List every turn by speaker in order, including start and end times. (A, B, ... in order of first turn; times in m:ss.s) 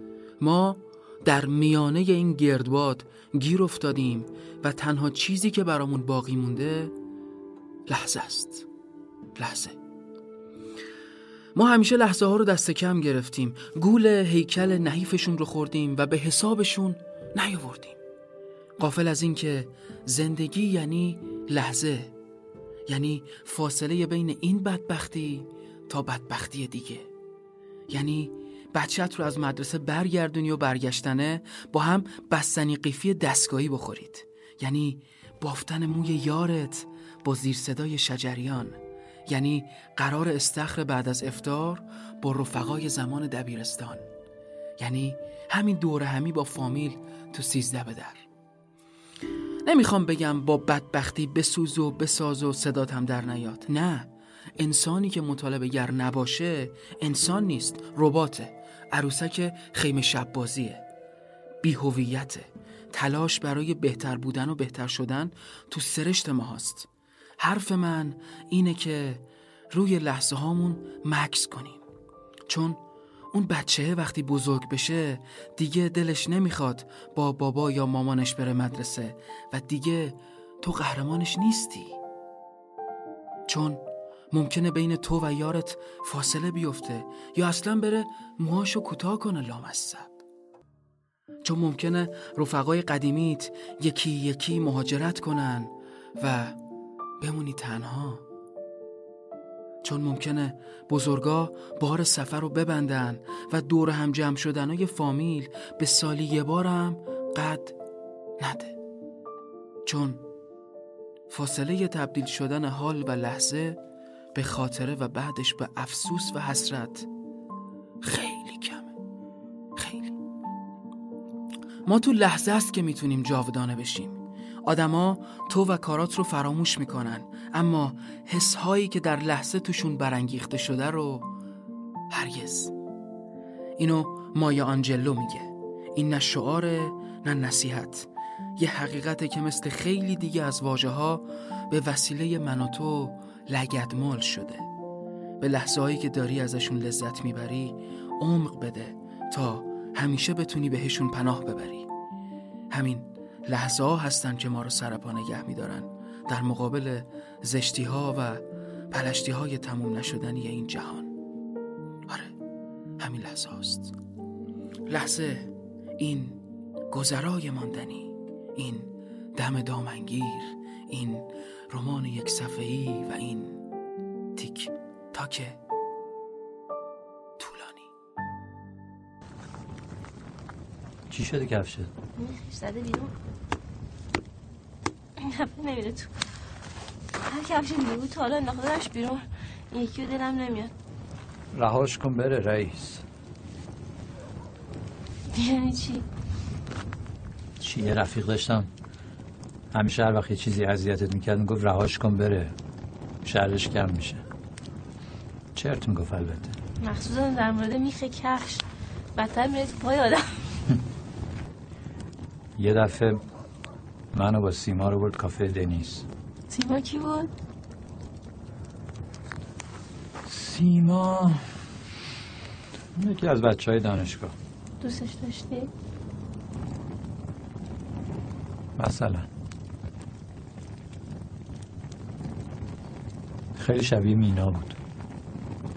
0:00.4-0:06.9 A
0:07.9-0:08.6 A
0:09.4-0:09.8 A
0:11.5-0:18.0 A
0:18.8-0:22.1 A
0:22.9-0:27.1 A
0:27.9-0:38.8 A
0:39.3-0:44.0 A
0:44.8-0:48.2 A
0:49.6-1:00.8 A
1:01.6-1:06.9 A
1:07.4-1:11.8 A
1:12.5-1:12.8 A
1:13.3-1:22.0 A
1:23.5-1:30.2 A
1:31.4-1:36.6 A
1:37.2-1:38.2 A
1:39.8-1:47.8 A
1:48.4-1:48.8 A
1:49.8-1:50.2 A
1:51.3-1:53.8 A
1:54.3-1:57.1 A
1:58.0-1:58.9 A
1:59.8-2:00.2 A
2:01.8-2:11.3 A
2:12.1-2:12.7 A
2:13.8-2:24.6 A
2:25.4-2:31.9 A
2:32.7-2:41.1 A
2:42.1-2:42.3 A
2:43.0-2:43.9 A
2:44.9-2:53.6 A
2:54.4-2:55.6 A
2:57.4-2:57.9 A
3:01.1-3:01.9 B
3:02.2-3:03.1 C
3:05.2-3:06.2 C
3:07.2-3:10.7 C
3:11.5-3:13.0 B
3:15.3-3:16.0 C
3:17.6-3:18.7 B
3:19.7-3:22.5 B
3:23.2-3:24.2 B
3:25.5-3:26.6 B
3:26.8-3:28.6 C
3:29.1-3:30.3 C
3:32.6-3:33.2 B
3:34.1-3:36.0 B
3:36.5-3:37.3 C
3:40.3-3:41.4 B
3:43.0-3:44.3 B
3:44.8-3:45.7 C
3:48.8-3:49.3 B
3:53.6-3:54.8 B